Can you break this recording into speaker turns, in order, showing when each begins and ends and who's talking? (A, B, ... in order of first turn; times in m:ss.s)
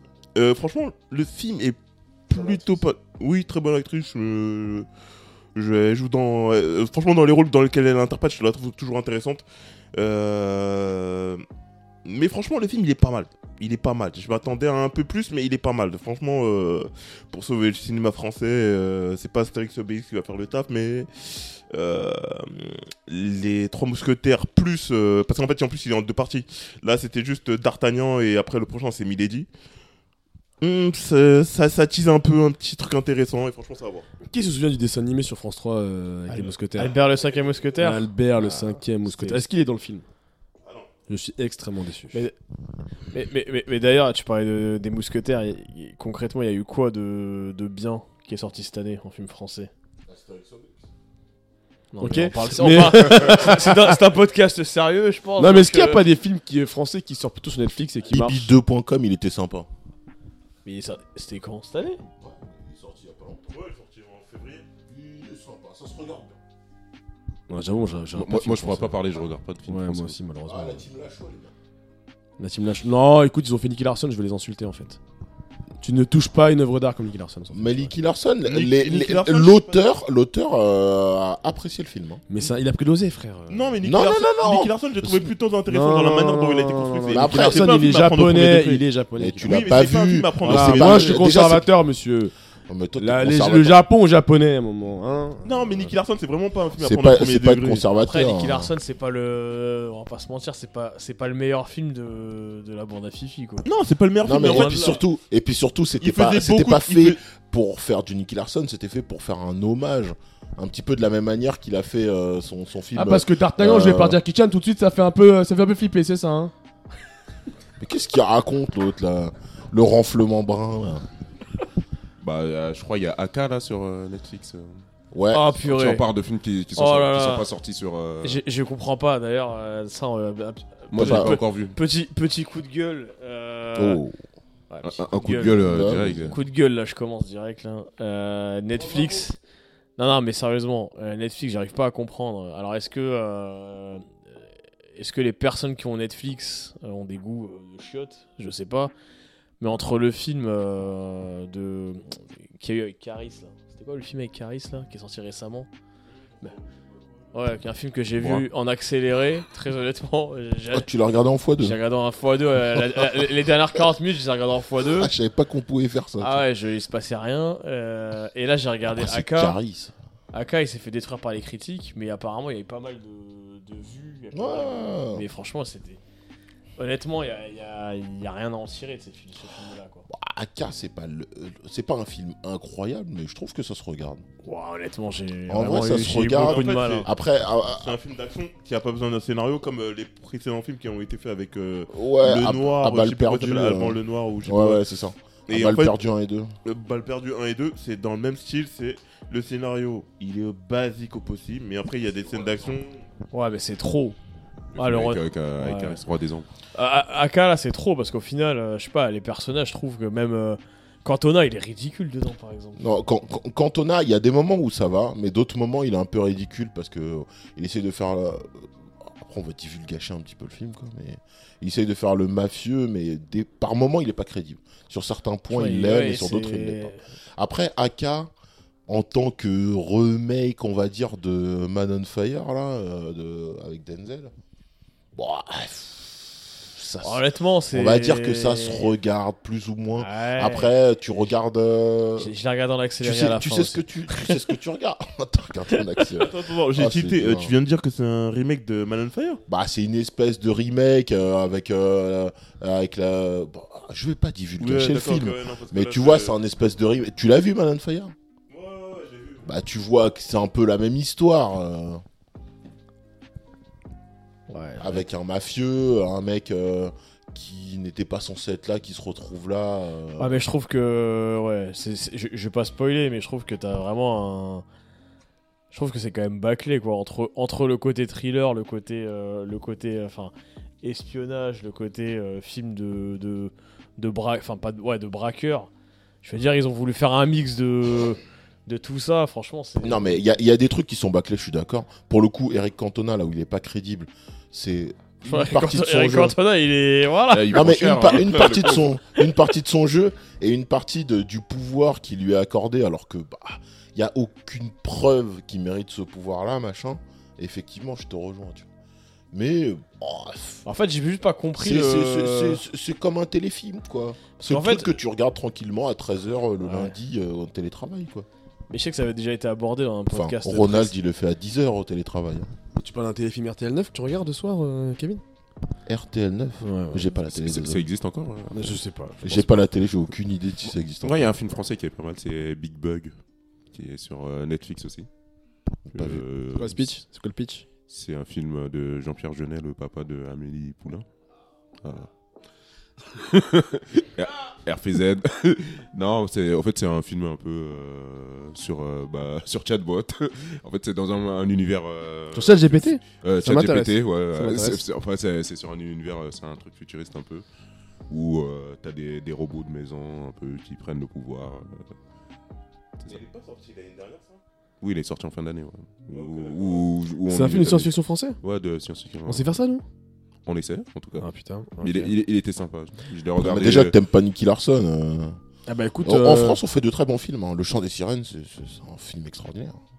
0:00.3-0:04.9 A
0:05.5-0:11.4 A
0:12.0-0:29.5 A
0:30.6-0:34.0 A
0:34.3-0:37.0 B
0:36.3-0:39.4 C
0:37.8-0:40.0 B
0:40.6-0:40.9 A
0:41.1-0:42.2 B
0:43.1-0:49.7 C
0:50.0-0:50.9 D
0:51.9-0:56.0 C
0:52.0-0:53.9 B
0:55.4-0:58.5 B
0:58.0-0:59.7 D
1:00.6-1:02.0 C
1:02.0-1:03.5 D
1:03.5-1:04.7 A
1:04.8-1:06.4 D
1:07.5-1:09.0 B
1:08.1-1:10.2 E
1:09.7-1:10.8 B
1:10.4-1:11.5 D
1:12.4-1:15.0 B
1:15.8-1:17.9 B
1:17.5-1:22.2 D
1:18.4-1:19.8 A
1:22.3-1:23.8 B
1:23.5-1:28.8 A
1:23.8-1:25.3 D
1:25.7-1:29.8 B
1:27.1-1:27.8 D
1:29.2-1:31.7 D
1:29.4-1:31.2 A
1:30.4-1:32.3 B
1:32.7-1:33.8 D
1:33.0-1:35.9 B
1:35.4-1:37.9 A
1:36.8-1:38.7 D
1:38.0-1:43.6 C
1:43.6-1:45.0 A
1:44.2-1:54.2 D
1:44.3-1:45.0 C
1:46.0-1:47.2 A
1:52.9-1:56.5 B
1:57.8-2:01.0 D
2:02.2-2:04.8 E
2:05.1-2:05.6 D
2:05.3-2:06.0 C
2:05.6-2:08.4 E
2:06.7-2:07.5 C
2:08.2-2:14.0 C
2:10.9-2:11.8 E
2:11.0-2:11.4 D
2:13.7-2:14.2 D
2:14.7-2:19.4 C
2:14.8-2:16.4 E
2:15.6-2:16.4 D
2:20.0-2:24.2 C
2:24.9-2:28.9 C
2:29.6-2:35.7 C
2:37.3-2:40.9 C
2:38.2-2:38.4 E
2:40.7-2:41.8 D
2:41.6-2:45.1 C
2:42.8-2:43.0 D
2:44.8-2:46.4 D
2:46.2-2:49.6 C
2:48.8-2:49.9 D
2:50.3-2:56.0 C
2:54.3-2:55.2 D
2:56.8-3:00.1 C
3:00.1-3:04.2 D
3:04.4-3:07.1 C
3:05.5-3:08.0 D
3:06.2-3:07.1 A
3:07.7-3:14.8 A
3:11.9-3:16.5 D
3:15.5-3:15.9 A
3:16.6-3:23.0 A
3:23.3-3:24.2 C
3:24.7-3:26.5 E
3:24.8-3:26.0 C
3:26.7-3:32.9 C
3:32.8-3:48.3 D
3:45.5-3:47.0 C
3:48.9-3:54.3 D
3:55.1-4:02.3 D
3:57.0-3:58.9 C
4:00.0-4:00.7 C
4:02.2-4:04.4 C
4:03.0-4:07.5 D
4:06.1-4:09.4 A
4:09.5-4:18.1 D
4:14.6-4:16.4 A
4:18.5-4:19.5 A
4:19.4-4:22.0 D
4:24.5-4:25.1 C
4:24.8-4:30.4 D
4:30.2-4:34.6 C
4:35.7-4:45.7 C
4:46.2-4:50.2 C
4:49.8-4:56.4 D
4:55.2-4:58.2 C
4:57.3-4:59.0 E
4:57.5-5:08.7 D
5:09.3-5:10.6 D
5:10.6-5:12.6 C
5:11.6-5:18.3 D
5:14.4-5:14.9 C
5:16.6-5:16.9 C
5:18.7-5:20.9 C
5:20.1-5:22.5 D
5:22.8-5:25.2 B
5:25.8-5:27.8 D
5:26.6-5:27.1 B
5:27.3-5:28.8 E
5:28.5-5:29.6 B
5:29.2-5:31.4 D
5:31.0-5:33.1 E
5:33.7-5:35.1 E
5:35.9-5:36.2 D
5:35.9-5:36.9 E
5:36.5-5:37.6 B
5:37.9-5:41.0 E
5:41.8-5:42.1 E
5:43.1-5:57.4 E
5:52.3-5:54.8 B
5:58.1-6:01.9 E
6:03.0-6:04.4 A
6:04.8-6:09.5 E
6:06.1-6:06.8 A
6:07.3-6:08.4 B
6:09.2-6:09.8 B
6:10.4-6:11.2 E
6:11.2-6:12.1 B
6:11.8-6:13.9 E
6:13.4-6:15.4 D
6:15.7-6:16.6 B
6:16.0-6:19.8 D